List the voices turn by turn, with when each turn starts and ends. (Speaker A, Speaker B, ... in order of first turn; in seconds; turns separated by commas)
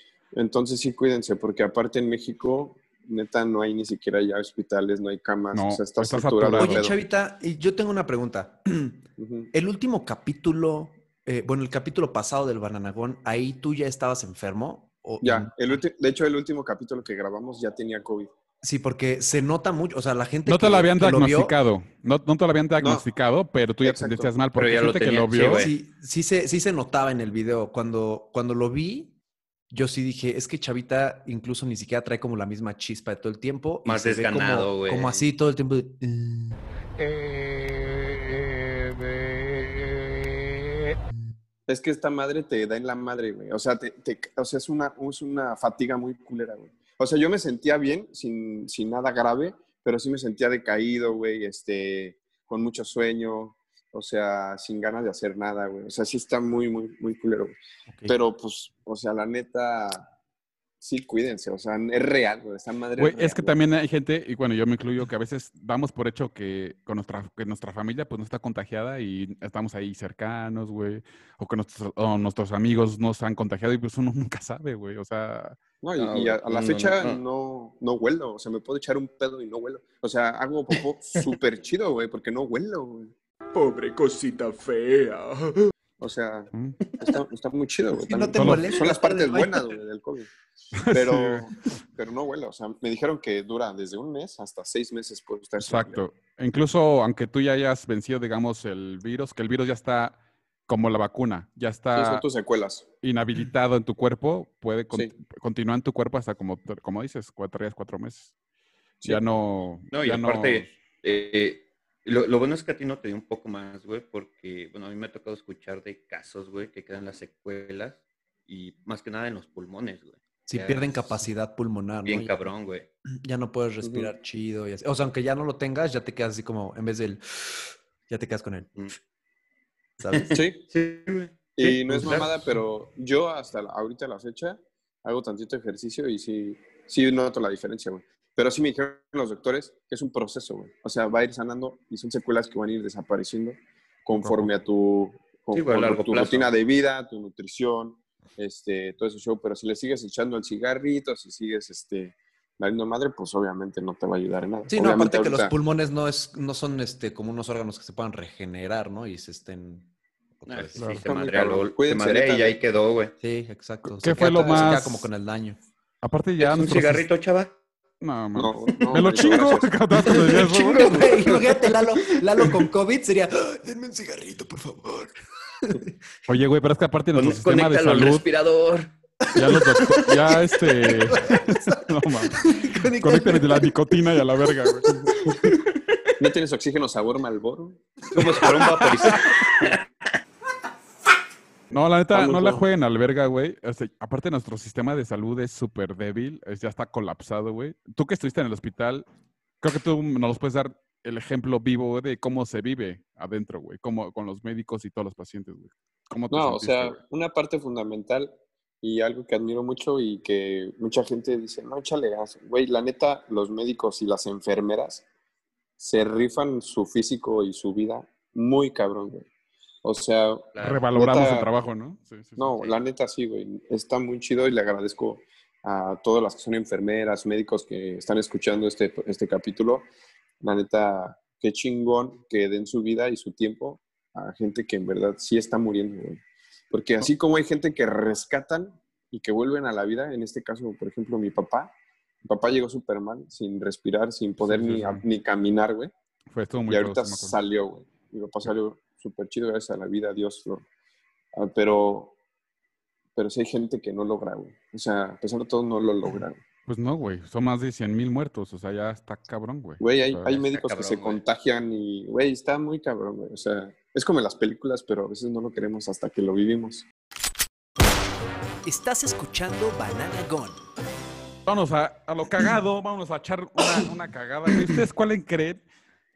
Speaker A: 0.3-7.0, Speaker B: 5.5-6.9, Speaker C: 6.6-9.0, Speaker A: 9.2-9.5, Speaker C: 9.5-15.8, Speaker A: 15.2-18.3, Speaker C: 18.6-21.6, Speaker B: 20.5-25.7, Speaker A: 22.8-23.1, Speaker A: 23.8-24.3, Speaker D: 24.6-25.7, Speaker C: 25.5-29.1, Speaker C: 29.7-36.6, Speaker D: 33.9-35.3, Speaker A: 41.7-57.5, Speaker A: 58.1-60.1, Speaker A: 60.8-63.6, Speaker B: 63.0-75.6, Speaker A: 75.8-83.1, Speaker D: 76.0-77.2, Speaker E: 83.5-85.7, Speaker A: 86.0-90.3, Speaker C: 88.0-89.6, Speaker B: 88.4-88.7, Speaker B: 90.9-91.5, Speaker A: 90.9-96.0, Speaker B: 95.6-102.2, Speaker A: 101.9-102.8, Speaker B: 103.0-108.3, Speaker B: 109.0-110.7, Speaker D: 109.9-121.2, Speaker C: 120.5-122.4, Speaker D: 122.0-122.9, Speaker C: 123.2-128.7, Speaker A: 123.8-124.1, Speaker C: 130.0-130.4, Speaker D: 130.1-132.3, Speaker A: 130.3-130.6, Speaker A: 131.6-155.5, Speaker B: 144.1-144.5, Speaker D: 145.5-146.5, Speaker C: 154.7-159.9, Speaker C: 160.4-161.0, Speaker D: 160.5-163.1, Speaker B: 160.8-161.0, Speaker A: 161.0-162.6, Speaker C: 163.2-165.6, Speaker B: 164.0-165.1, Speaker B: 166.0-167.1, Speaker D: 166.4-167.6, Speaker B: 168.0-171.1, Speaker A: 168.3-169.8, Speaker C: 170.1-175.9, Speaker D: 170.7-171.8, Speaker B: 176.3-178.2, Speaker D: 177.1-178.9, Speaker C: 179.3-179.5, Speaker B: 179.3-184.9, Speaker C: 181.0-181.8, Speaker C: 182.4-183.7, Speaker A: 184.9-185.1, Speaker D: 185.3-186.0, Speaker A: 186.2-187.8, Speaker D: 188.1-189.8, Speaker B: 191.7-199.1, Speaker A: 192.1-192.6, Speaker B: 199.6-207.0, Speaker A: 206.3-215.0, Speaker A: 215.8-219.3, Speaker A: 219.8-221.5, Speaker D: 220.6-220.8, Speaker B: 220.6-222.7, Speaker A: 222.4-229.9, Speaker A: 230.4-236.2, Speaker A: 236.7-241.7, Speaker A: 242.2-245.9, Speaker B: 244.4-245.0, Speaker B: 246.3-247.4, Speaker A: 246.7-250.7, Speaker A: 251.3-252.1, Speaker A: 253.2-256.4, Speaker B: 256.7-260.4, Speaker A: 259.8-266.9, Speaker D: 260.3-261.2, Speaker C: 268.6-270.6, Speaker B: 271.5-275.6